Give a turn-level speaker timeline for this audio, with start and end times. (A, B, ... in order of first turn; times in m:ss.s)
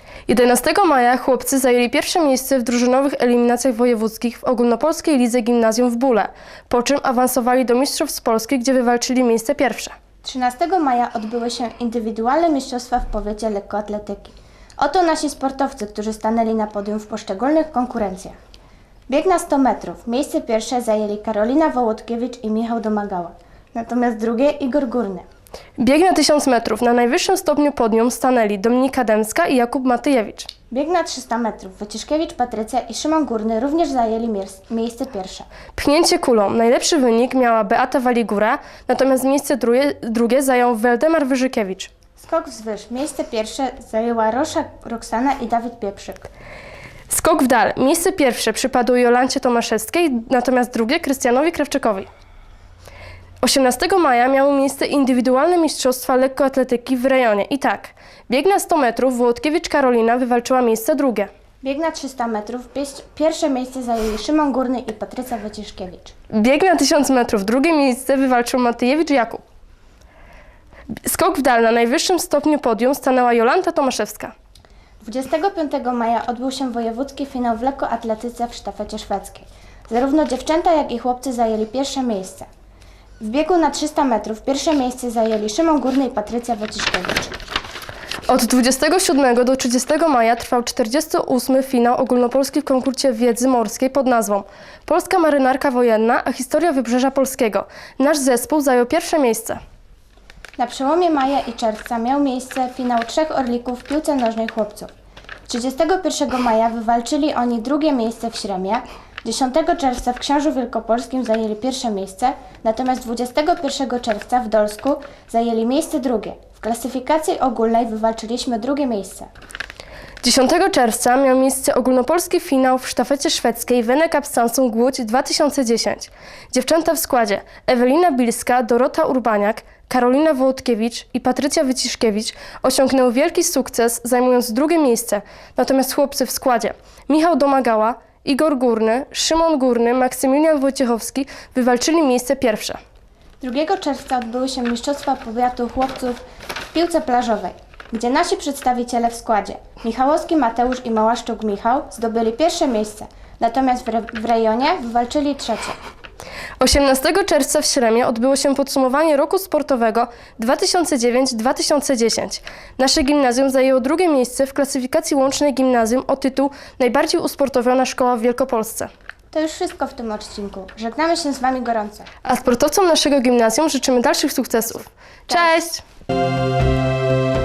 0:00.3-0:09.9 A
0:10.2-0:18.4 B
0:19.1-0:25.2 B
0:25.8-0:30.5 A
0:30.7-0:35.5 B
0:35.7-0:41.9 A
0:42.2-0:46.3 B
0:47.1-0:52.1 A
0:53.4-1:01.3 A
1:01.6-1:06.1 B
1:06.3-1:09.4 A
1:11.0-1:14.3 A
1:15.0-1:22.5 B
1:23.2-1:27.4 B
1:28.3-1:39.6 A
1:40.6-1:44.9 B
1:45.5-1:59.3 B
2:00.2-2:22.8 A
2:23.4-2:26.2 B
2:26.7-2:35.8 B
2:36.6-2:48.9 A
2:49.3-2:52.1 B
2:52.2-2:55.8 A